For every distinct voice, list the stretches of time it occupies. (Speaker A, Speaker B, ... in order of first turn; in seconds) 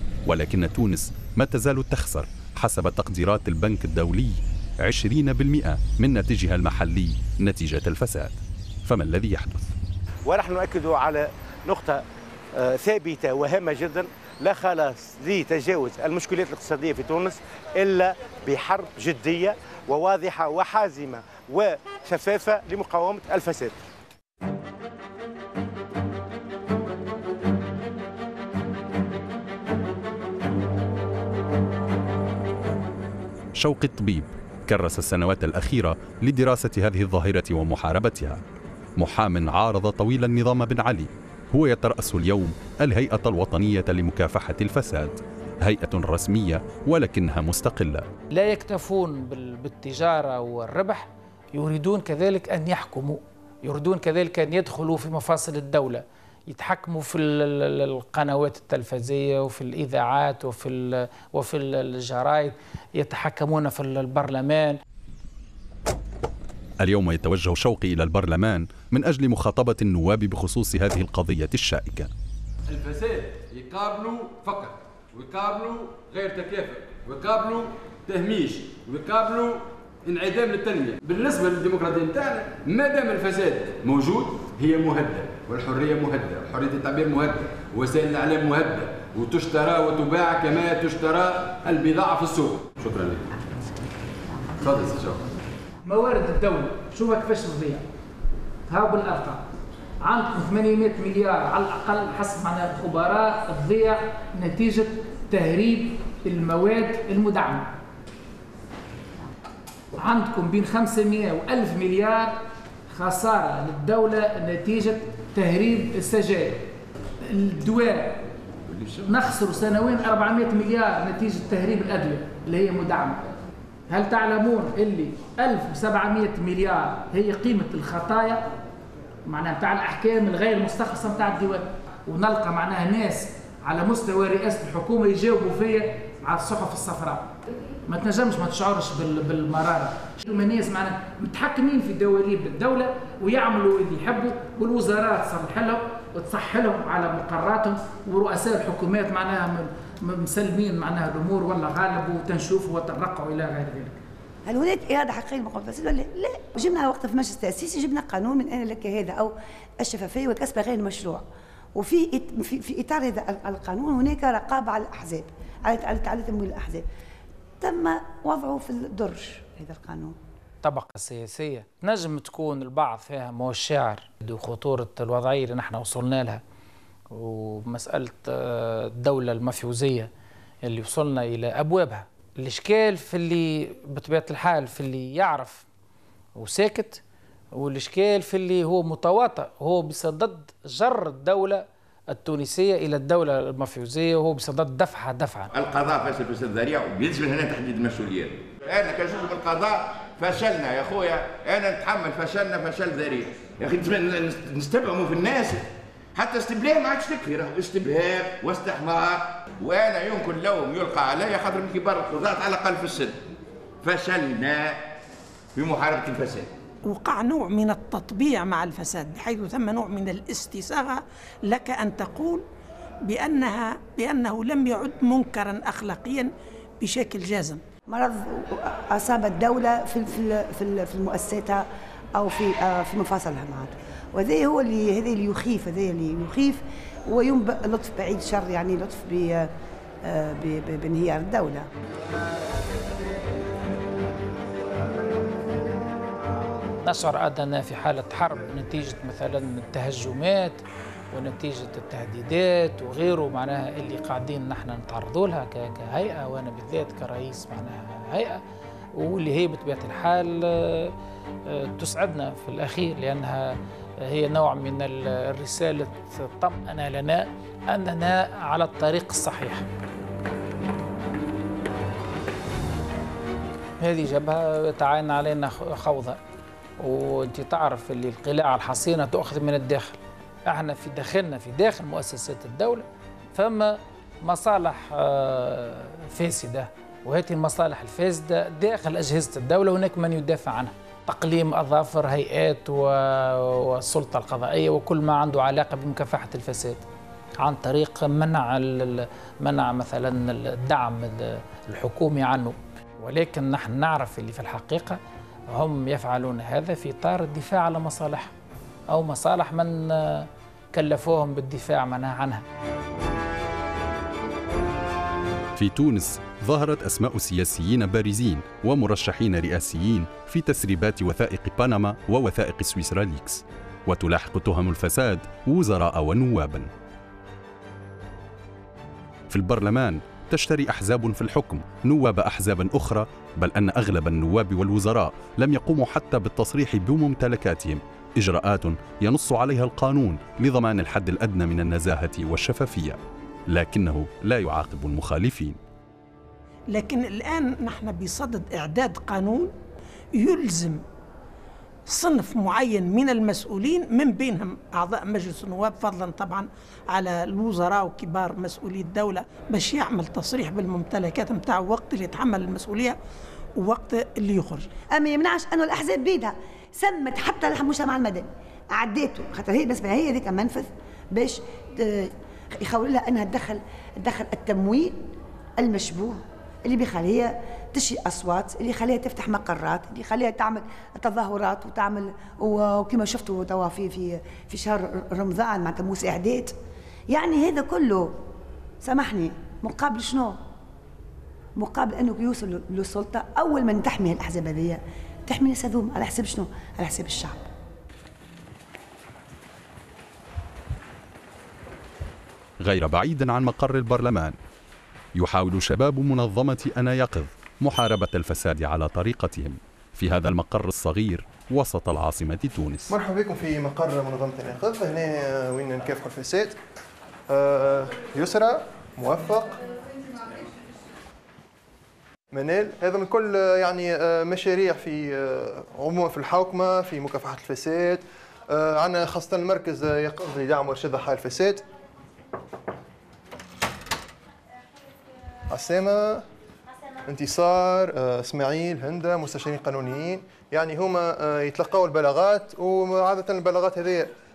Speaker A: 0.2-9.7, 33.6-38.4, 39.0-48.1, 66.8-72.1, 315.6-326.7, 329.3-345.6, 402.6-404.4, 405.1-412.9
Speaker B: 10.2-12.0, 12.6-23.8
Speaker C: 48.3-64.8, 95.8-97.8, 98.7-99.4, 100.0-107.7, 110.0-112.4, 112.9-116.6, 117.2-118.2, 119.0-123.3, 123.9-128.5, 129.2-137.3, 137.9-154.0, 170.6-176.4, 177.1-180.1, 180.6-185.6, 186.3-187.0, 187.5-195.5, 246.8-250.6, 251.1-258.4, 258.9-260.9, 261.5-269.7, 273.8-276.2, 276.8-296.8, 297.4-308.3, 308.9-312.4
Speaker D: 72.7-93.2, 94.6-95.3
Speaker E: 118.7-119.2, 195.5-213.2, 213.8-214.8, 215.5-216.5
Speaker F: 154.4-161.2, 161.7-166.8, 167.6-170.2, 227.9-239.5, 240.0-241.7, 364.9-375.0, 375.6-386.5, 387.1-388.2, 388.8-390.4, 391.6-397.4
Speaker G: 216.8-222.4, 223.0-227.6, 346.7-349.5, 350.1-350.8, 351.9-363.0, 363.6-364.7
Speaker H: 412.9-416.6, 417.3-419.6, 422.3-431.6, 435.5-436.2, 437.0-444.1